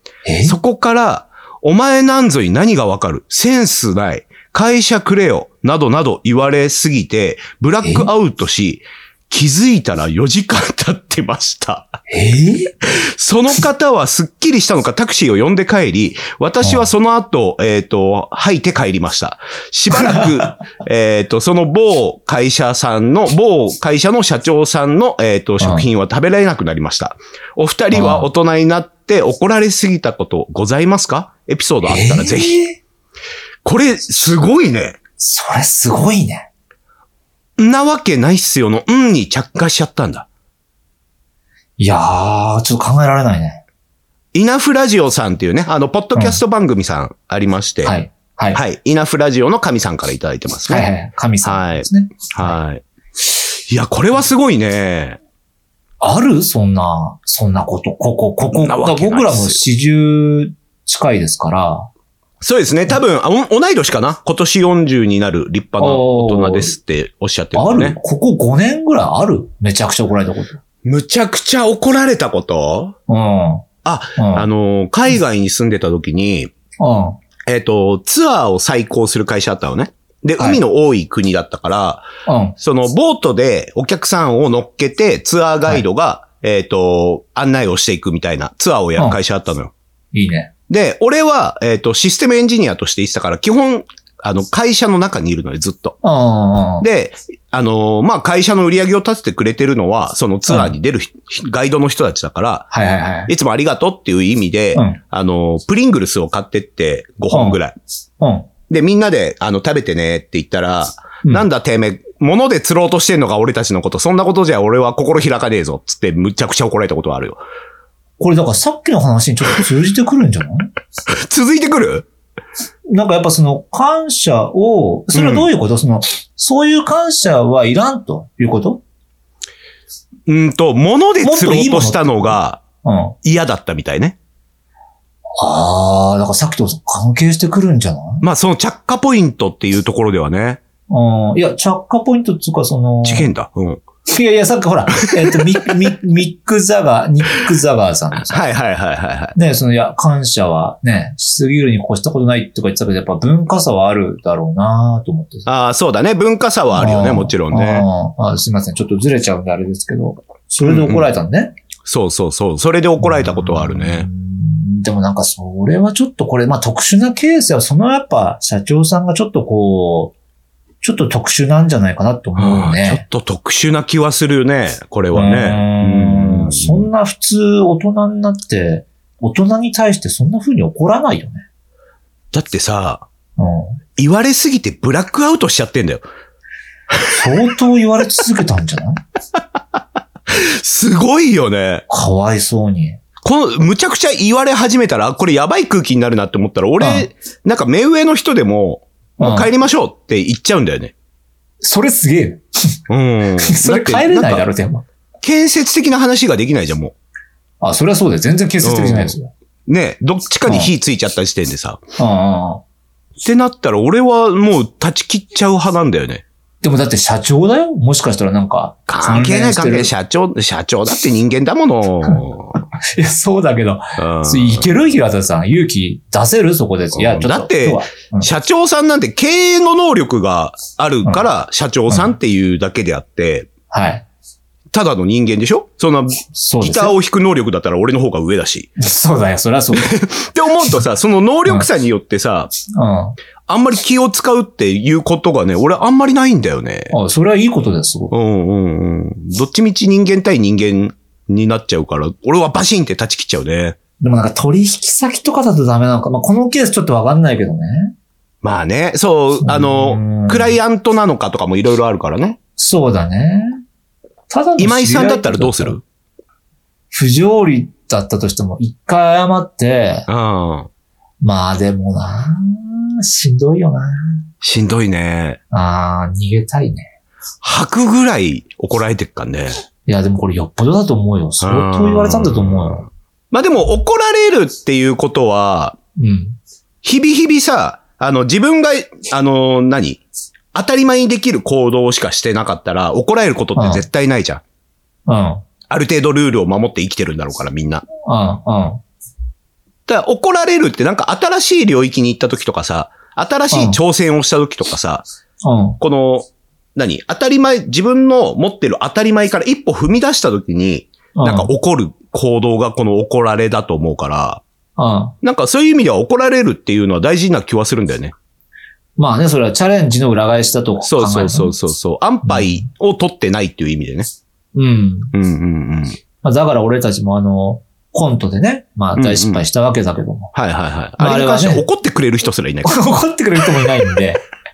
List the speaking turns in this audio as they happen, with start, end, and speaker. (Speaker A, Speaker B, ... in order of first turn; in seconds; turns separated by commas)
Speaker A: 0.2-0.6, Speaker B: 0.4-11.9, Speaker A: 7.8-8.1, Speaker A: 12.1-12.7, Speaker B: 12.8-32.6, Speaker A: 16.6-16.9, Speaker A: 20.0-20.5, Speaker A: 25.6-25.9, Speaker A: 27.9-28.3, Speaker A: 31.8-32.8, Speaker B: 33.6-35.0, Speaker A: 35.2-36.5, Speaker B: 37.6-40.3, Speaker A: 41.8-43.6, Speaker B: 44.3-47.9, Speaker A: 46.1-46.4, Speaker A: 47.8-48.6, Speaker B: 48.5-50.9, Speaker A: 50.7-52.6, Speaker B: 51.4-52.8, Speaker B: 53.4-55.2, Speaker A: 56.0-61.9, Speaker B: 58.5-59.6, Speaker B: 62.4-68.0, Speaker A: 65.8-66.7, Speaker A: 67.5-70.6, Speaker B: 70.8-72.9, Speaker A: 73.1-74.5, Speaker B: 73.8-76.5, Speaker A: 76.8-77.2, Speaker B: 77.5-82.1, Speaker A: 82.2-82.5, Speaker B: 82.6-89.7, Speaker A: 90.1-90.5, Speaker B: 90.7-96.0, Speaker A: 96.0-96.8, Speaker B: 96.8-102.7, Speaker A: 100.5-100.7, Speaker A: 102.7-103.3, Speaker B: 103.3-107.8, Speaker A: 107.3-107.6, Speaker A: 108.2-108.5, Speaker B: 108.7-117.4, Speaker A: 118.2-120.7, Speaker B: 121.1-122.1, Speaker A: 122.9-128.8, Speaker B: 125.1-125.5, Speaker B: 130.3-132.6, Speaker A: 131.2-133.2, Speaker B: 133.2-134.2, Speaker A: 135.4-138.2, Speaker B: 138.2-140.6, Speaker A: 140.9-143.3, Speaker B: 143.0-143.8, Speaker A: 144.0-148.4, Speaker B: 145.1-145.7, Speaker B: 148.2-149.3, Speaker A: 149.3-155.5, Speaker B: 155.5-157.9, Speaker A: 156.7-161.5, Speaker B: 160.6-161.1, Speaker B: 161.8-164.1, Speaker A: 163.0-170.1, Speaker A: 170.8-173.0, Speaker B: 172.4-176.9, Speaker A: 175.1-181.4, Speaker B: 182.3-183.0, Speaker A: 183.4-183.8, Speaker B: 184.0-186.0, Speaker B: 186.9-187.3, Speaker A: 187.1-189.0, Speaker B: 190.3-191.8, Speaker A: 191.9-193.0, Speaker B: 193.2-200.9, Speaker A: 196.8-197.1, Speaker A: 199.2-199.5, Speaker A: 201.6-202.4, Speaker B: 202.9-204.5, Speaker A: 203.4-204.8, Speaker B: 205.2-206.9, Speaker A: 207.6-209.3, Speaker B: 208.6-209.1, Speaker B: 209.7-211.8, Speaker A: 210.4-210.7, Speaker A: 212.0-212.6, Speaker B: 213.2-216.2, Speaker A: 216.6-219.9, Speaker B: 218.9-222.6, Speaker A: 222.7-228.3, Speaker B: 224.0-224.7, Speaker B: 226.9-233.5, Speaker A: 231.9-232.1, Speaker A: 233.7-234.0, Speaker B: 234.7-238.7, Speaker A: 236.3-236.9, Speaker A: 238.8-240.0, Speaker B: 239.8-242.5, Speaker A: 242.7-243.2, Speaker B: 243.5-246.9, Speaker A: 246.9-248.1, Speaker B: 248.1-253.8, Speaker A: 254.0-257.9, Speaker B: 258.4-262.4, Speaker A: 259.4-260.6, Speaker A: 262.6-263.6, Speaker A: 264.3-265.8, Speaker B: 264.6-265.8, Speaker A: 266.9-270.1, Speaker B: 270.1-270.7, Speaker A: 271.2-274.2, Speaker B: 274.4-275.4, Speaker A: 275.5-276.9, Speaker B: 277.4-279.5, Speaker A: 279.9-282.8, Speaker B: 281.4-285.8, Speaker A: 286.0-286.4, Speaker B: 286.8-290.0, Speaker B: 290.5-294.4, Speaker A: 293.6-293.8, Speaker A: 295.1-295.4, Speaker B: 295.7-297.9, Speaker A: 298.0-298.8, Speaker B: 299.9-305.1, Speaker A: 303.5-303.8, Speaker A: 305.4-305.8, Speaker B: 305.8-314.4, Speaker A: 311.1-311.5, Speaker A: 314.8-315.1, Speaker B: 315.2-318.1, Speaker A: 319.0-321.5, Speaker B: 320.8-324.1, Speaker A: 322.2-322.6, Speaker A: 324.5-325.1, Speaker B: 325.1-326.0, Speaker A: 326.2-330.3, Speaker B: 328.9-329.4, Speaker B: 330.3-332.9, Speaker A: 331.0-331.6, Speaker A: 332.6-334.2